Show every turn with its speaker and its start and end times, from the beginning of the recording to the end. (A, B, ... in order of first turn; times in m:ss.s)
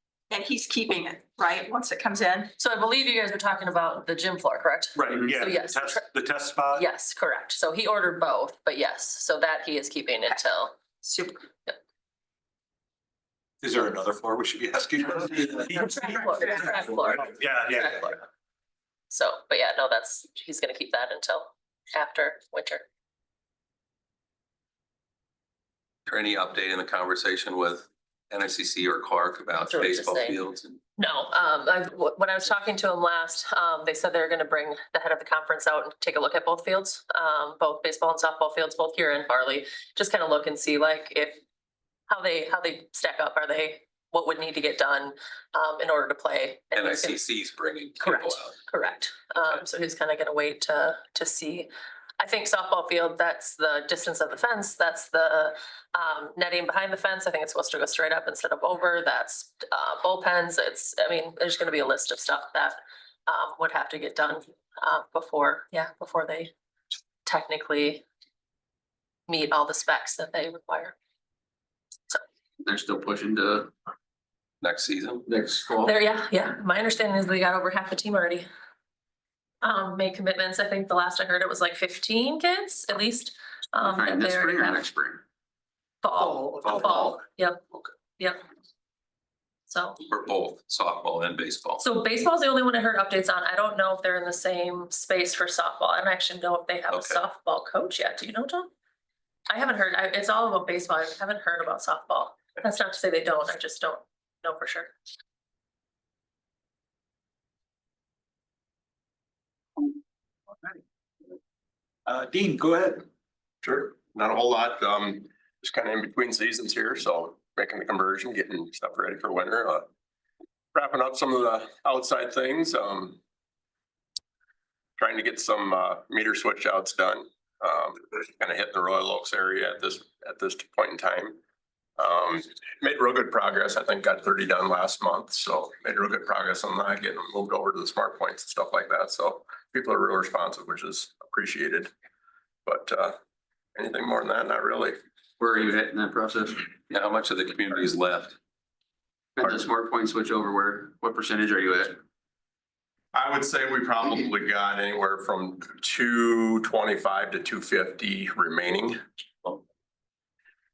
0:00.3-0:02.5 A
0:02.6-0:06.0 B
0:05.0-0:06.9 C
0:06.7-0:10.8 B
0:11.0-0:11.4 A
0:13.6-0:18.2 C
0:15.8-0:18.2 B
0:19.1-0:22.8 B
0:26.1-0:30.8 D
0:29.6-0:30.4 B
0:31.0-0:41.4 B
0:42.1-0:47.2 B
0:46.7-0:48.6 D
0:48.0-1:06.5 B
1:07.2-1:08.0 B
1:09.3-1:11.0 B
1:12.6-1:13.7 E
1:14.6-1:15.3 D
1:15.3-1:15.9 E
1:15.8-1:18.5 B
1:19.6-1:24.9 B
1:23.8-1:25.2 E
1:26.0-1:27.6 B
1:29.7-1:30.0 B
1:30.1-1:31.8 D
1:31.8-1:38.7 B
1:36.9-1:37.2 D
1:39.5-1:44.9 B
1:52.1-1:53.1 C
1:53.6-1:59.9 F
2:00.8-2:03.2 F
2:05.0-2:11.4 F
2:12.0-2:21.9 F
2:22.7-2:23.2 F
2:23.8-2:25.0 F
2:25.4-2:26.7 E
2:26.9-2:28.4 D
2:29.4-2:32.0 E
2:33.1-2:39.0 F